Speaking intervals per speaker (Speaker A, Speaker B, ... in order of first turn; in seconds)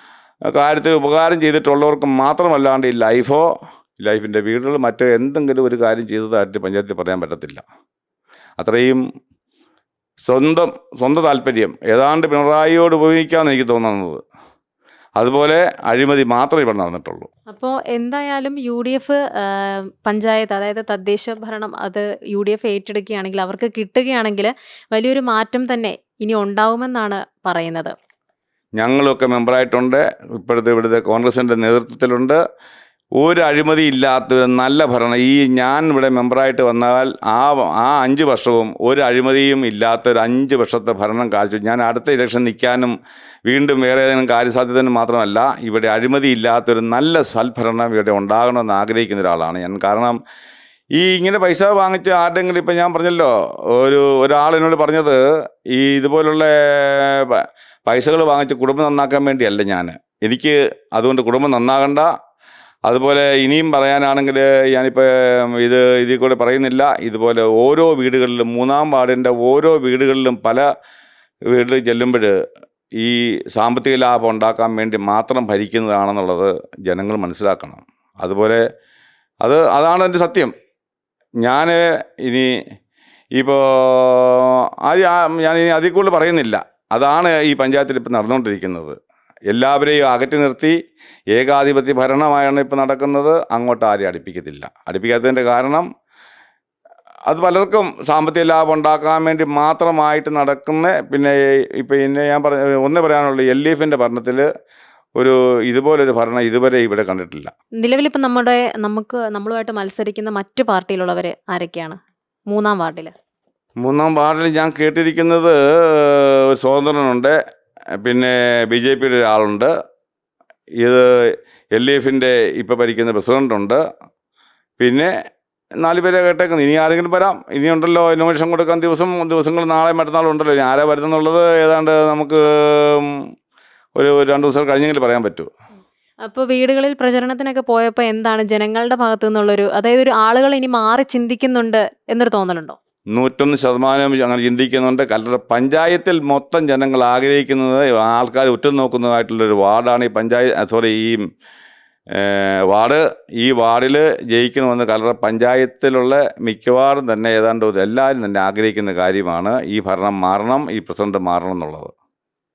Speaker A: 0.5-7.6, 8.6-9.0, 10.2-14.2, 15.2-17.3, 28.8-32.4, 33.2-42.9, 43.5-50.2, 51.0-62.1, 62.9-70.6, 71.5-72.3, 73.0-78.6, 79.4-80.5, 81.4-82.5, 83.3-89.0, 89.5-90.8, 91.3-95.9, 97.3-104.5, 105.2-107.5, 113.8-117.3, 118.0-119.7, 120.8-121.1, 121.7-123.8, 124.8-125.1, 125.8-133.1, 133.9-135.5, 143.1-151.2, 152.1-161.9
Speaker B: 17.5-27.9, 107.8-112.0, 112.5-113.1, 136.2-142.8